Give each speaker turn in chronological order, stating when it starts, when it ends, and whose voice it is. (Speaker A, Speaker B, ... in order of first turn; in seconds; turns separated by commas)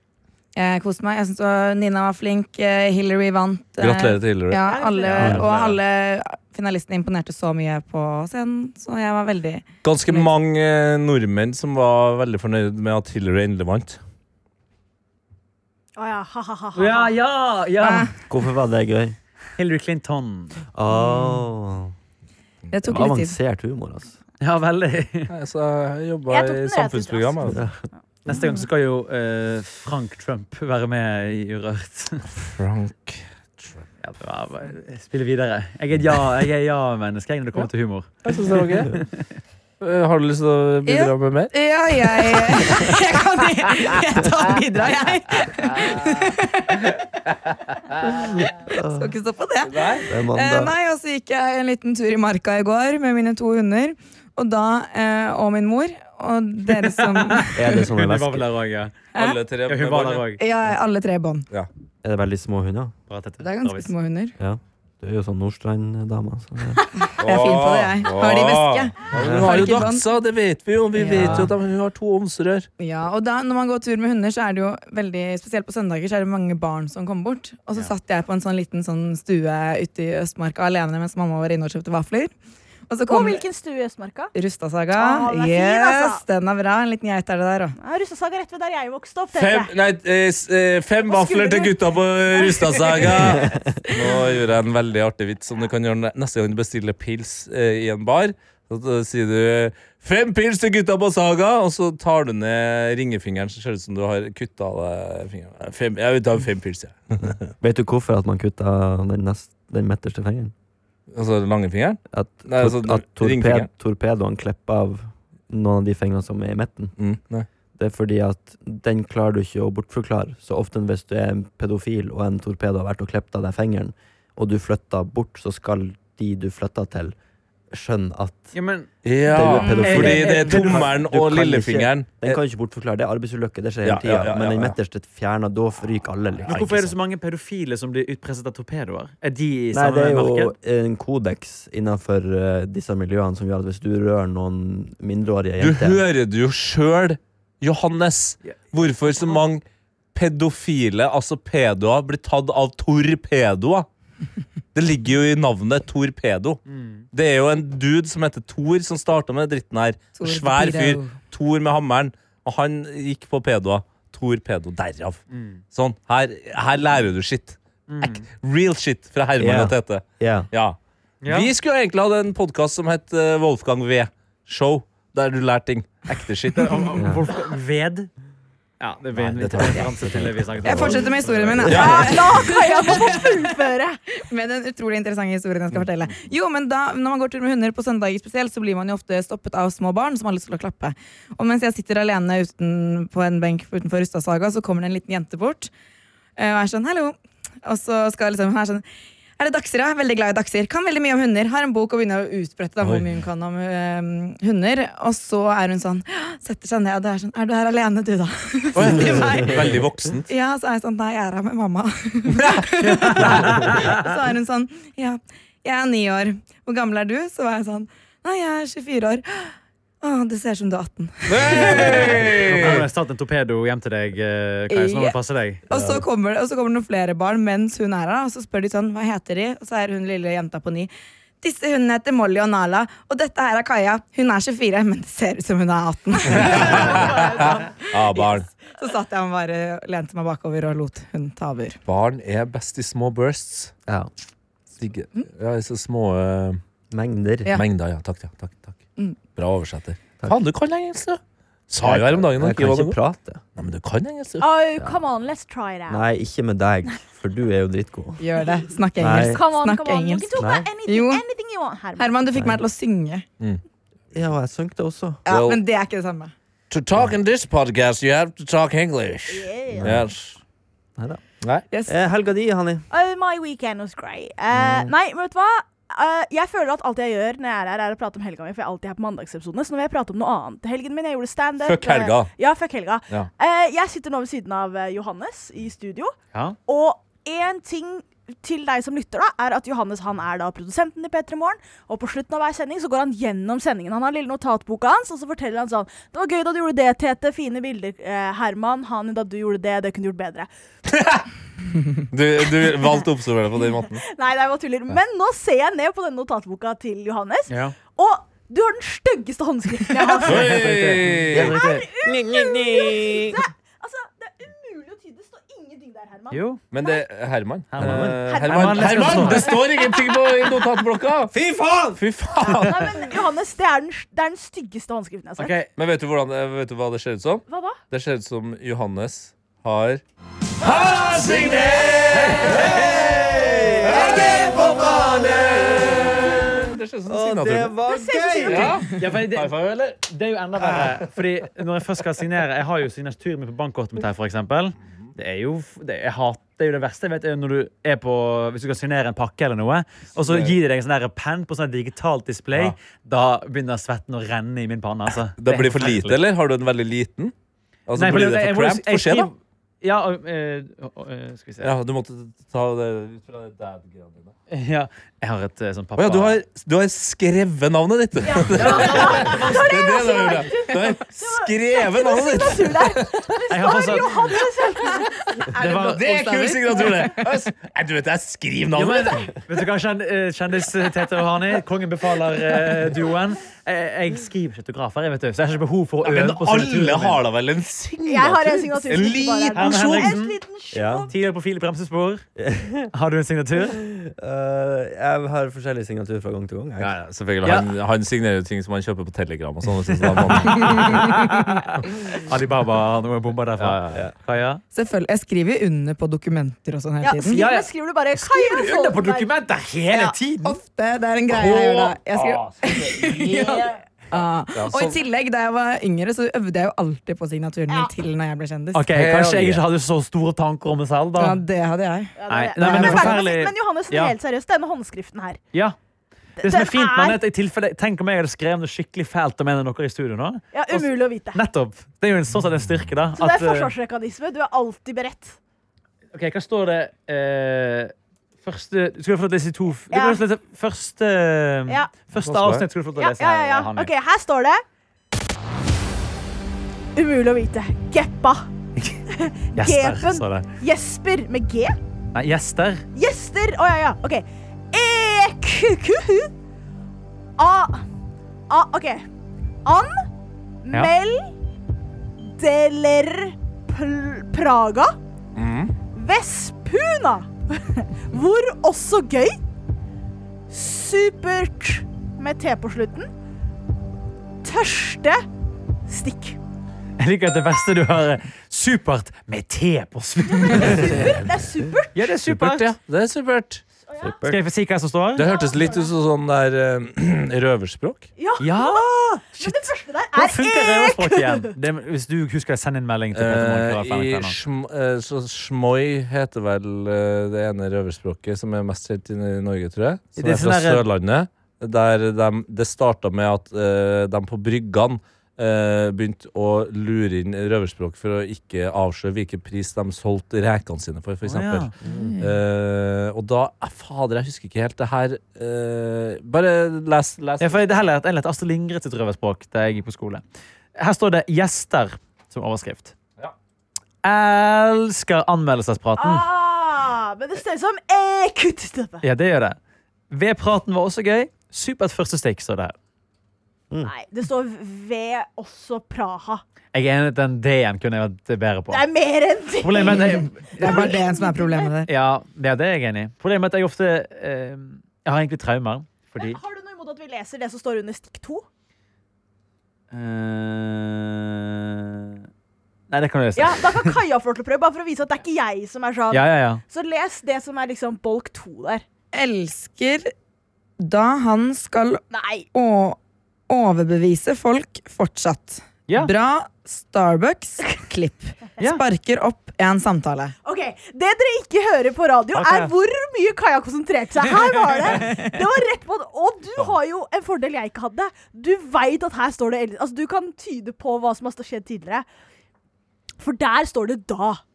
Speaker A: 0.6-10.3, Speaker B: 3.8-4.6, Speaker C: 4.6-5.4, Speaker B: 5.2-5.8, Speaker B: 9.8-14.0, Speaker C: 16.0-17.1, Speaker D: 16.8-18.1, Speaker A: 17.8-18.1, Speaker E: 18.3-19.2, Speaker D: 19.6-20.6, Speaker E: 20.7-21.9, Speaker A: 20.9-21.4, Speaker A: 22.7-23.4, Speaker E: 22.8-24.2, Speaker D: 24.4-25.3, Speaker B: 25.3-27.6, Speaker C: 26.3-27.6, Speaker E: 27.5-27.7, Speaker D: 28.2-32.3, Speaker B: 32.5-33.8, Speaker D: 34.0-39.2, Speaker B: 38.2-39.0, Speaker B: 39.8-42.6, Speaker A: 40.9-47.0, Speaker B: 45.6-46.2, Speaker B: 47.5-48.3, Speaker E: 48.7-49.1, Speaker A: 48.8-57.8, Speaker B: 49.7-50.0, Speaker E: 50.1-50.7, Speaker D: 56.8-59.0, Speaker E: 57.5-58.5, Speaker B: 59.1-60.3, Speaker D: 59.7-60.4, Speaker A: 60.4-61.5, Speaker E: 62.0-62.9, Speaker D: 63.1-63.9, Speaker A: 63.4-64.3, Speaker E: 64.4-66.8, Speaker A: 67.0-70.1, Speaker B: 67.2-72.7, Speaker E: 69.1-69.6, Speaker A: 71.0-71.5, Speaker E: 71.1-71.5, Speaker A: 72.8-82.3, Speaker A: 82.9-83.4, Speaker C: 83.1-84.3, Speaker A: 84.3-87.8, Speaker C: 84.9-86.2, Speaker C: 87.8-89.7, Speaker B: 89.3-107.5, Speaker C: 91.1-91.7, Speaker E: 93.3-93.7, Speaker E: 107.6-110.5, Speaker B: 111.1-113.7, Speaker E: 112.1-117.0, Speaker B: 117.0-117.5, Speaker E: 117.8-127.2, Speaker E: 127.7-128.6, Speaker D: 128.5-128.9, Speaker B: 129.0-132.4, Speaker E: 129.2-136.7, Speaker A: 129.6-130.5, Speaker D: 129.8-130.9, Speaker B: 133.8-134.8, Speaker B: 136.4-136.9, Speaker D: 136.5-140.5, Speaker E: 139.7-146.0, Speaker B: 145.6-149.6, Speaker B: 150.1-153.9, Speaker B: 154.8-156.6, Speaker D: 156.7-157.1, Speaker B: 157.1-176.9, Speaker A: 160.2-161.2, Speaker D: 165.3-165.6, Speaker D: 167.9-168.3, Speaker E: 169.4-170.5, Speaker D: 171.2-171.5, Speaker D: 176.6-178.1, Speaker E: 177.0-177.2, Speaker D: 178.8-182.1, Speaker B: 179.2-180.8, Speaker E: 179.8-181.0, Speaker A: 180.6-183.4, Speaker B: 181.7-182.2, Speaker C: 181.7-184.0, Speaker A: 184.2-195.7, Speaker A: 196.4-198.8, Speaker A: 199.4-209.7, Speaker B: 208.8-210.3, Speaker A: 210.3-222.3, Speaker D: 212.8-214.2, Speaker B: 221.3-222.8, Speaker D: 222.1-225.6, Speaker A: 224.7-225.2, Speaker A: 225.7-230.9, Speaker B: 225.7-226.0, Speaker A: 231.4-241.8, Speaker B: 236.3-238.5, Speaker B: 241.9-243.7, Speaker B: 244.8-246.6, Speaker E: 246.9-247.6, Speaker B: 247.5-248.8, Speaker B: 249.4-253.0, Speaker E: 251.8-253.4, Speaker B: 253.6-254.5, Speaker C: 254.4-256.0, Speaker E: 255.9-258.2, Speaker A: 258.2-261.2, Speaker E: 259.0-259.4, Speaker C: 259.2-262.1, Speaker E: 260.4-260.7, Speaker A: 262.0-263.2, Speaker E: 264.1-265.2, Speaker A: 265.3-266.3, Speaker B: 265.3-265.6, Speaker B: 266.7-270.4, Speaker C: 269.3-270.0, Speaker E: 269.8-270.0, Speaker E: 271.9-272.9, Speaker C: 272.9-300.5, Speaker E: 274.5-274.9, Speaker B: 281.6-282.3, Speaker B: 300.9-301.2, Speaker B: 302.1-304.0, Speaker C: 303.9-310.5, Speaker D: 307.5-307.8, Speaker D: 310.2-311.9, Speaker B: 310.2-311.6, Speaker E: 311.3-313.4, Speaker C: 311.4-317.0, Speaker D: 316.3-316.6, Speaker B: 316.7-321.3, Speaker D: 317.7-319.6, Speaker E: 317.8-318.2, Speaker C: 318.2-320.6, Speaker E: 321.3-322.0, Speaker B: 322.0-323.0, Speaker C: 322.4-325.6, Speaker D: 325.4-325.7, Speaker B: 325.8-330.0, Speaker C: 327.5-327.8, Speaker B: 330.6-337.8, Speaker E: 331.2-336.5, Speaker E: 337.1-338.8, Speaker C: 337.9-338.8, Speaker B: 338.4-339.9, Speaker D: 338.8-356.2, Speaker B: 350.2-350.6, Speaker B: 355.4-357.3, Speaker B: 357.9-359.3, Speaker D: 358.0-361.7, Speaker B: 361.6-364.3, Speaker D: 364.5-366.4, Speaker B: 366.0-373.2, Speaker C: 368.2-375.4, Speaker D: 368.5-369.6, Speaker D: 373.5-374.3, Speaker A: 375.4-377.3, Speaker D: 375.6-376.1, Speaker B: 375.8-379.3, Speaker D: 378.8-387.2, Speaker B: 386.0-390.2, Speaker C: 388.0-391.1, Speaker D: 389.5-390.4, Speaker E: 390.7-391.1, Speaker D: 391.1-392.2, Speaker E: 392.4-392.9, Speaker D: 392.9-393.8, Speaker E: 393.7-396.9, Speaker B: 396.8-401.1, Speaker D: 397.4-397.7, Speaker D: 400.0-404.6, Speaker A: 400.7-401.5, Speaker B: 403.6-403.9, Speaker A: 404.7-407.4, Speaker C: 407.0-409.3, Speaker D: 407.3-410.6, Speaker A: 410.4-418.9, Speaker B: 411.3-413.3, Speaker C: 413.2-413.8, Speaker B: 414.6-415.0, Speaker D: 418.7-421.4, Speaker B: 418.9-419.6, Speaker A: 421.2-423.2, Speaker C: 422.2-425.4, Speaker D: 422.3-424.1, Speaker C: 426.4-427.2, Speaker D: 426.4-433.7, Speaker C: 430.5-431.4, Speaker C: 433.2-435.4, Speaker D: 436.1-443.9, Speaker C: 439.9-440.2, Speaker C: 441.7-441.9, Speaker B: 442.2-442.7, Speaker C: 443.0-444.6, Speaker C: 446.9-448.5, Speaker C: 449.1-451.8, Speaker D: 449.6-450.5, Speaker D: 452.1-452.9, Speaker C: 452.9-456.3, Speaker C: 457.4-457.9, Speaker C: 458.5-459.1, Speaker C: 459.6-460.1, Speaker C: 460.6-461.4, Speaker C: 462.2-465.0, Speaker B: 465.4-465.7, Speaker C: 465.9-469.4, Speaker C: 470.5-473.1, Speaker C: 474.4-475.2, Speaker C: 475.9-476.4, Speaker D: 477.0-481.1, Speaker C: 480.4-482.0, Speaker D: 481.9-482.7, Speaker B: 482.3-483.6, Speaker C: 483.8-484.3, Speaker E: 484.0-484.4, Speaker D: 484.2-485.2, Speaker B: 485.2-488.1, Speaker C: 485.2-485.9, Speaker C: 488.2-491.5, Speaker D: 488.4-494.4, Speaker B: 493.1-517.6, Speaker D: 500.2-500.8, Speaker D: 511.2-511.7, Speaker E: 511.8-512.1, Speaker A: 511.9-512.3, Speaker D: 517.4-520.2, Speaker D: 520.8-522.9, Speaker D: 524.0-526.3, Speaker C: 526.0-529.0, Speaker D: 529.0-529.6, Speaker D: 530.1-532.8, Speaker C: 533.8-536.4, Speaker D: 536.7-538.9, Speaker C: 538.7-541.7, Speaker D: 539.6-540.9, Speaker A: 540.6-541.9, Speaker D: 541.9-546.4, Speaker C: 546.2-548.4, Speaker D: 549.9-552.3, Speaker D: 552.9-554.0, Speaker C: 553.4-558.8, Speaker D: 556.1-556.6, Speaker A: 559.1-560.1, Speaker A: 560.8-562.0, Speaker C: 562.1-562.5, Speaker A: 562.5-563.0, Speaker A: 563.5-570.3, Speaker C: 570.5-582.1, Speaker D: 572.3-572.7, Speaker D: 574.2-575.4, Speaker C: 583.2-584.4